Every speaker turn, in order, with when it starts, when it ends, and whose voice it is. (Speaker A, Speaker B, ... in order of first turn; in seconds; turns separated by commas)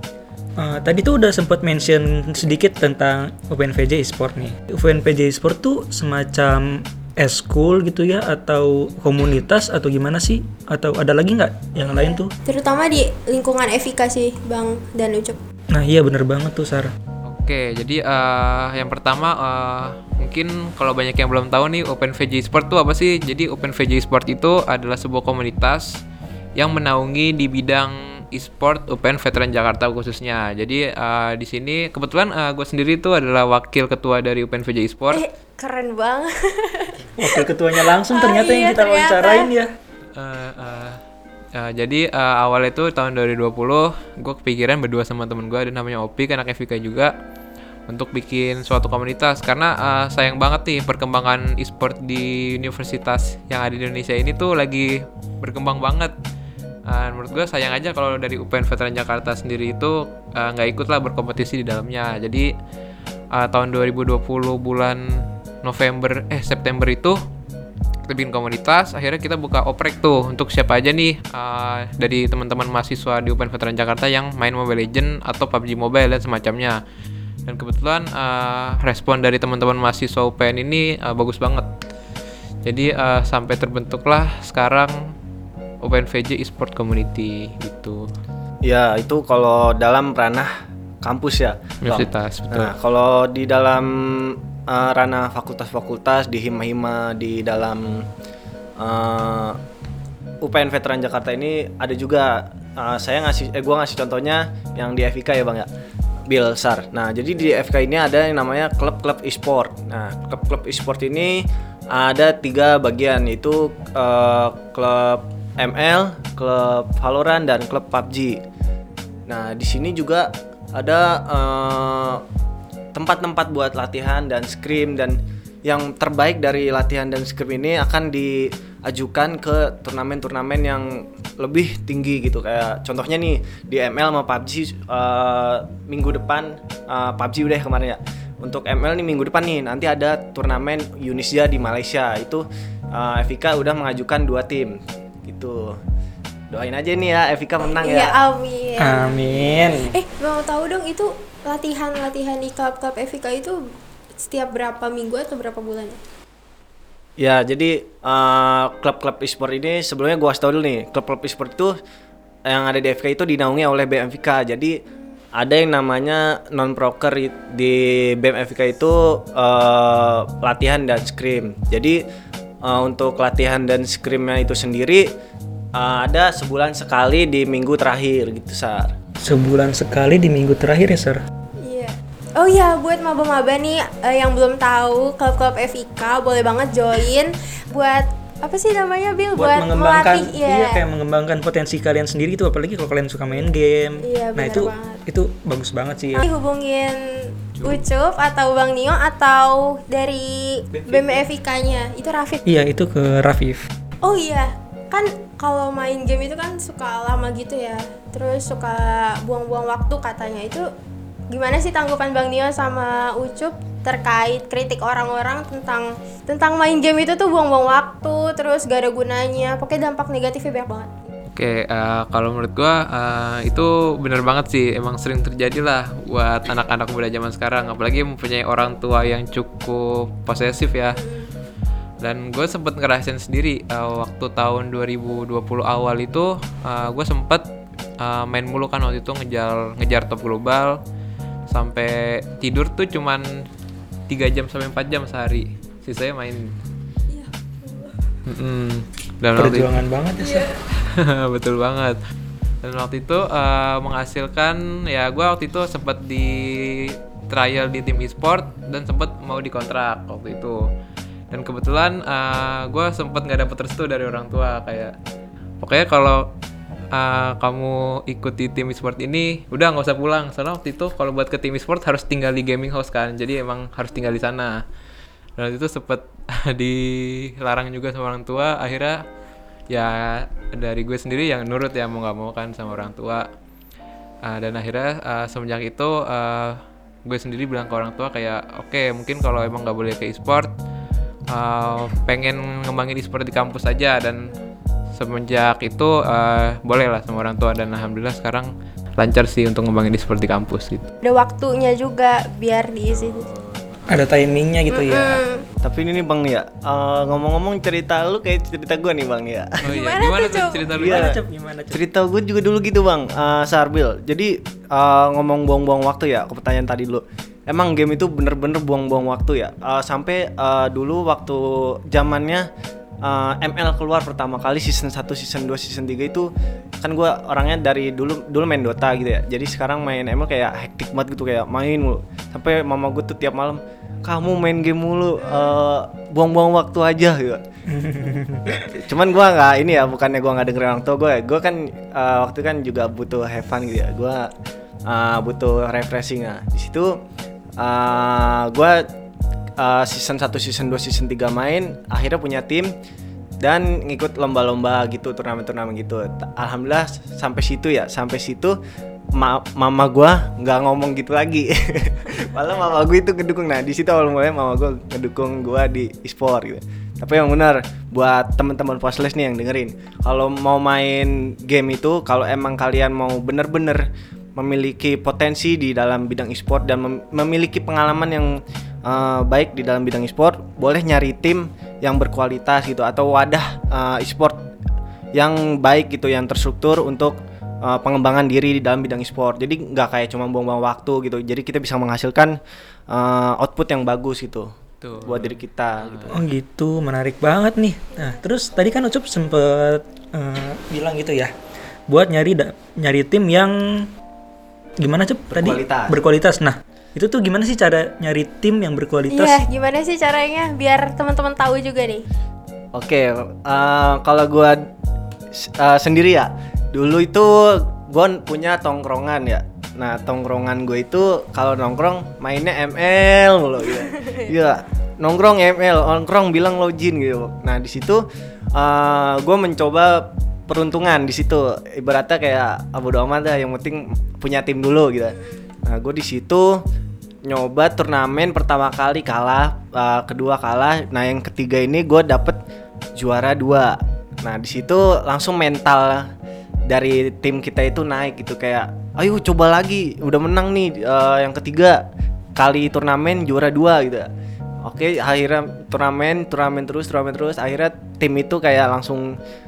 Speaker A: 0.6-12.3, Speaker B: 12.4-15.4, Speaker A: 15.7-16.9, Speaker C: 17.2-26.0, Speaker C: 26.6-35.2, Speaker B: 35.1-37.0, Speaker A: 37.2-39.7, Speaker B: 38.1-39.5, Speaker C: 40.1-41.0, Speaker C: 41.5-47.1, Speaker C: 47.9-56.1, Speaker C: 56.9-62.5, Speaker C: 63.3-67.2, Speaker C: 68.0-76.8, Speaker C: 77.5-81.7, Speaker C: 82.6-84.9, Speaker C: 85.8-88.1, Speaker D: 88.6-98.0, Speaker C: 91.8-92.7, Speaker D: 98.8-99.6, Speaker D: 100.4-105.7, Speaker D: 106.3-118.4, Speaker D: 119.3-122.2, Speaker D: 122.9-145.8, Speaker D: 146.5-148.2, Speaker B: 147.7-153.6, Speaker A: 148.8-149.9, Speaker B: 154.2-156.0, Speaker D: 157.2-161.7, Speaker D: 162.4-164.8, Speaker D: 165.4-172.0, Speaker D: 172.6-175.1, Speaker D: 175.7-178.9, Speaker A: 179.2-181.2, Speaker B: 181.6-190.8, Speaker A: 189.3-196.3, Speaker B: 194.0-195.0, Speaker B: 196.1-197.0, Speaker B: 197.6-202.4, Speaker A: 200.7-201.2, Speaker A: 202.4-203.7, Speaker B: 204.0-210.7, Speaker B: 211.3-220.9, Speaker C: 221.3-231.0, Speaker B: 231.0-231.3, Speaker C: 232.0-237.4, Speaker C: 238.0-240.8, Speaker C: 241.5-243.2, Speaker C: 244.1-246.6, Speaker B: 247.1-247.9, Speaker C: 248.2-249.8, Speaker A: 249.3-250.5, Speaker B: 250.2-250.5, Speaker C: 250.8-252.0, Speaker C: 252.6-260.6, Speaker C: 261.3-264.9, Speaker C: 265.6-266.3, Speaker C: 266.9-274.6, Speaker C: 275.4-279.0, Speaker C: 279.7-283.3, Speaker C: 284.2-290.5, Speaker C: 291.3-294.3, Speaker C: 294.9-300.9, Speaker B: 301.0-303.2, Speaker C: 302.9-303.9, Speaker A: 303.9-305.2, Speaker B: 304.7-305.4, Speaker D: 305.6-309.6, Speaker C: 309.6-311.1, Speaker B: 309.6-310.7, Speaker D: 310.8-311.2, Speaker A: 310.8-311.8, Speaker D: 311.7-322.5, Speaker D: 323.0-326.3, Speaker D: 326.8-337.4, Speaker A: 337.7-338.7, Speaker D: 338.7-344.3, Speaker D: 344.9-347.0, Speaker D: 347.6-348.9, Speaker D: 349.6-352.7, Speaker D: 353.4-358.6, Speaker D: 359.1-373.8, Speaker D: 374.4-378.3, Speaker D: 378.8-384.4, Speaker D: 385.1-392.4, Speaker D: 392.9-396.2, Speaker C: 394.8-396.1, Speaker A: 396.1-401.3, Speaker A: 401.9-403.9, Speaker A: 404.8-409.4, Speaker D: 405.3-405.9, Speaker B: 409.1-412.0, Speaker D: 412.7-414.7, Speaker D: 415.3-436.6, Speaker D: 437.2-442.4, Speaker D: 443.0-446.1, Speaker D: 446.7-451.8, Speaker D: 452.4-454.1, Speaker D: 454.6-459.1